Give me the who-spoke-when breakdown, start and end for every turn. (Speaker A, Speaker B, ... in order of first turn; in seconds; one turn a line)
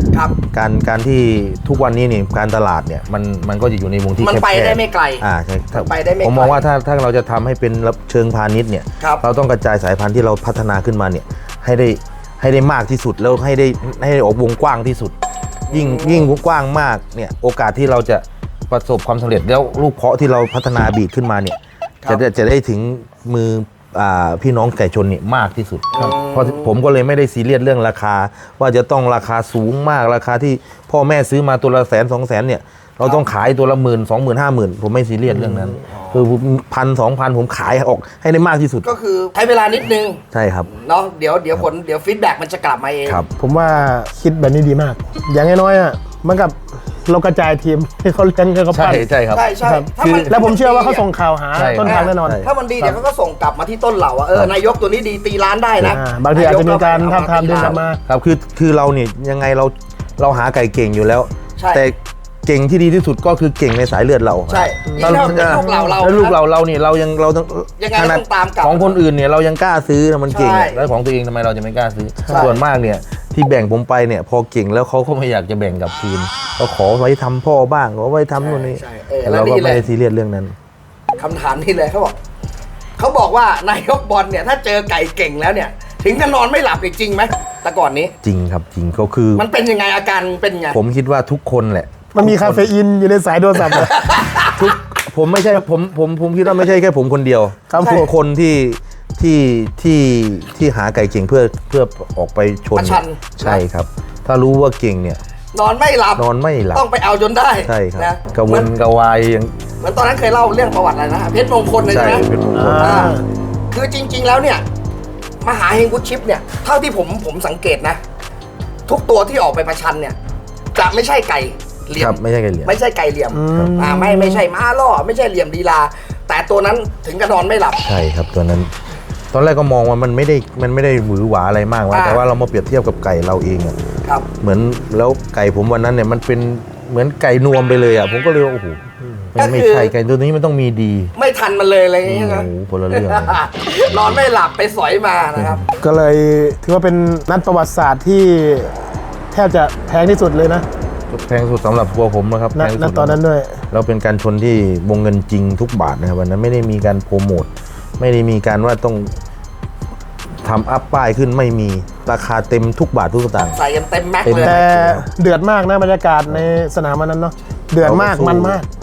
Speaker A: 0.5-15.2
Speaker B: 4.2-6.6
Speaker B: 15.7-16.3
Speaker A: 15.7-38.9
Speaker B: 25.9-26.7
Speaker C: 35.4-35.7
Speaker B: 35.9-36.2
Speaker B: 38.8-43.2
Speaker A: 40.3-40.7
Speaker C: 43.4-49.1
Speaker A: 48.7-50.4
Speaker B: 49.3-51.0
Speaker C: 49.6-52.9
Speaker A: 51.5-52.5
Speaker B: 51.8-57.8
Speaker C: 55.9-58.0
Speaker A: 57.6-80.5
Speaker B: 61.6-61.8
Speaker B: 64.5-66.4
Speaker C: 64.9-66.0
Speaker B: 67.8-69.0
Speaker B: 70.3-70.9
Speaker C: 72.2-72.5
Speaker B: 72.3-72.6
Speaker B: 78.4-79.9
Speaker B: 81.2-82.2
Speaker B: 83.0-88.1
Speaker A: 88.2-89.4
Speaker B: 89.3-90.8
Speaker A: 90.7-92.7
Speaker C: 92.1-94.0
Speaker B: 93.6-94.7
Speaker A: 94.5-105.2
Speaker C: 97.7-98.1
Speaker B: 97.7-98.1
Speaker B: 102.7-103.6
Speaker B: 105.5-108.7
Speaker A: 106.2-106.8
Speaker A: 107.7-109.5
Speaker B: 109.8-112.2
Speaker A: 111.8-113.1
Speaker C: 112.5-113.2
Speaker B: 112.8-113.2
Speaker B: 113.7-114.6
Speaker B: 115.4-118.0
Speaker B: 118.9-120.2
Speaker B: 120.7-127.8
Speaker A: 122.0-122.8
Speaker C: 123.3-124.4
Speaker A: 127.8-128.7
Speaker A: 129.3-133.8
Speaker B: 131.9-132.2
Speaker A: 134.4-138.8
Speaker C: 139.0-139.3
Speaker A: 139.3-141.1
Speaker B: 139.4-139.9
Speaker B: 141.1-145.6
Speaker A: 142.0-144.2
Speaker A: 145.4-145.6
Speaker C: 145.8-148.7
Speaker C: 149.3-150.6
Speaker A: 151.1-153.2
Speaker C: 152.5-153.6
Speaker A: 153.7-159.1
Speaker A: 160.4-163.6
Speaker B: 163.5-164.6
Speaker A: 164.2-165.1
Speaker C: 164.4-168.7
Speaker A: 167.8-168.6